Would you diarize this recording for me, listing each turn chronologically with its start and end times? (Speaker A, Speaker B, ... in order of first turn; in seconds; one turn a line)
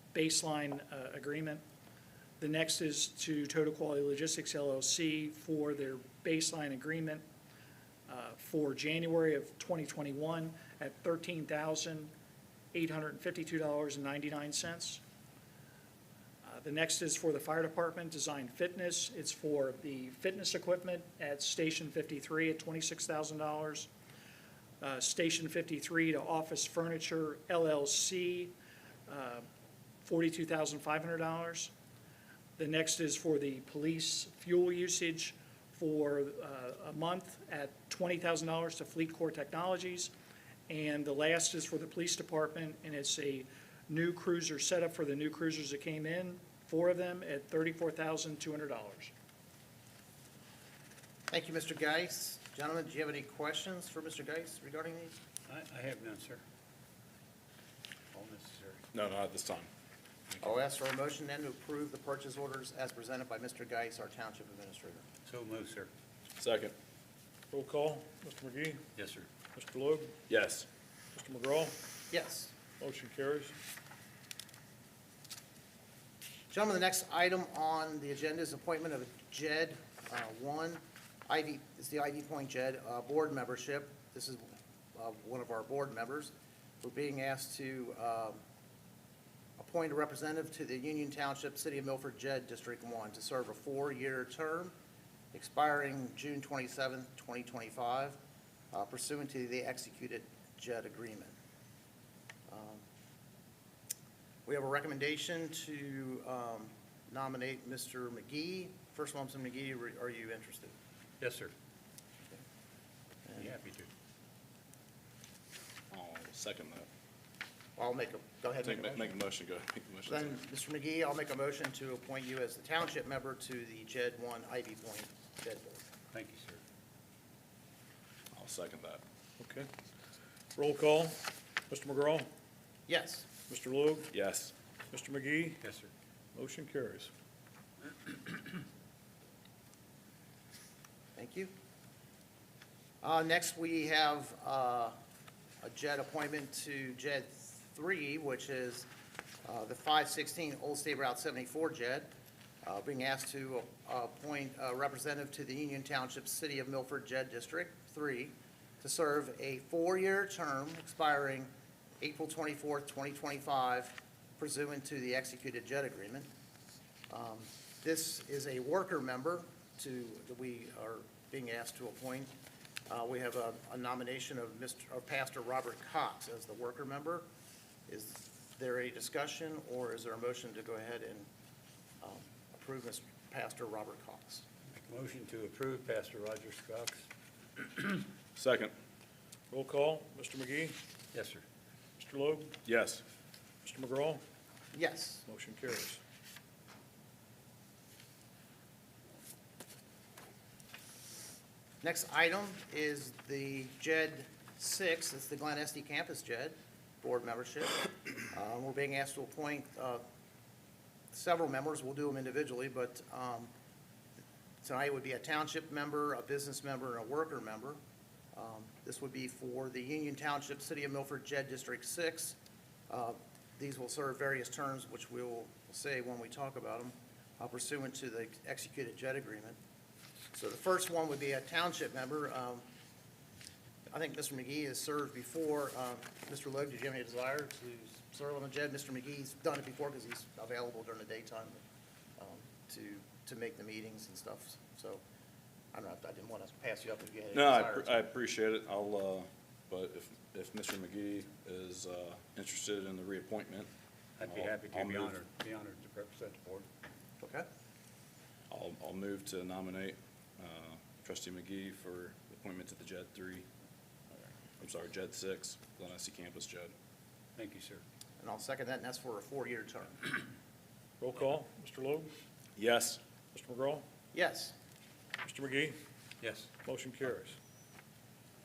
Speaker A: 0.1-1.6
Speaker A: 2.4-7.2
Speaker A: 8.1-12.1
Speaker A: 12.7-15.0
Speaker A: 16.4-23.9
Speaker A: 24.8-28.5
Speaker A: 29.1-29.5
Speaker A: 30.0-31.7
Speaker A: 32.6-40.1
Speaker A: 40.7-49.1
Speaker B: 51.3-55.2
Speaker C: 55.5-56.4
Speaker C: 58.1-58.8
Speaker D: 58.9-59.7
Speaker B: 60.4-65.0
Speaker C: 65.2-65.9
Speaker D: 66.4-66.7
Speaker E: 67.5-68.8
Speaker C: 69.0-69.3
Speaker E: 69.5-70.2
Speaker D: 70.3-70.7
Speaker E: 71.1-71.8
Speaker B: 72.1-72.5
Speaker E: 72.8-73.5
Speaker B: 76.5-88.4
Speaker B: 89.6-94.7
Speaker B: 95.3-98.2
Speaker B: 98.7-101.3
Speaker B: 102.5-102.8
Speaker B: 104.5-110.7
Speaker C: 111.2-111.5
Speaker B: 113.3-113.5
Speaker C: 113.4-113.9
Speaker D: 115.9-116.9
Speaker B: 117.8-119.2
Speaker D: 118.8-120.1
Speaker B: 120.1-125.9
Speaker C: 126.1-126.6
Speaker D: 128.3-129.0
Speaker E: 129.4-129.7
Speaker E: 130.6-132.3
Speaker B: 132.9-133.3
Speaker E: 133.5-134.1
Speaker D: 134.1-134.5
Speaker E: 134.9-135.6
Speaker C: 135.6-135.9
Speaker E: 136.3-137.1
Speaker B: 141.2-141.5
Speaker B: 143.0-145.0
Speaker B: 145.6-148.9
Speaker B: 149.4-152.1
Speaker B: 152.6-166.3
Speaker B: 167.1-172.3
Speaker B: 172.9-177.3
Speaker B: 177.9-181.3
Speaker B: 182.0-184.4
Speaker C: 184.7-187.1
Speaker C: 187.6-188.1
Speaker D: 188.4-188.7
Speaker E: 189.5-190.8
Speaker C: 191.1-191.4
Speaker E: 192.0-192.6
Speaker D: 192.7-193.0
Speaker E: 193.6-194.2
Speaker B: 194.7-195.2
Speaker E: 195.3-196.0
Speaker B: 201.8-210.0
Speaker B: 211.1-213.5
Speaker B: 214.6-217.8
Speaker B: 218.3-222.4
Speaker B: 222.9-229.6
Speaker B: 230.3-232.7
Speaker B: 233.9-241.6
Speaker B: 242.2-245.0
Speaker B: 245.7-248.0
Speaker D: 247.3-253.7
Speaker C: 254.2-256.7
Speaker D: 254.3-255.2
Speaker B: 257.2-257.5
Speaker D: 258.5-263.5
Speaker D: 264.6-266.7
Speaker C: 267.4-267.8
Speaker B: 268.2-270.2
Speaker E: 271.0-272.1
Speaker D: 272.6-273.0
Speaker E: 273.3-273.9
Speaker B: 274.1-274.6
Speaker E: 275.2-275.8
Speaker C: 276.2-276.5
Speaker E: 276.6-277.4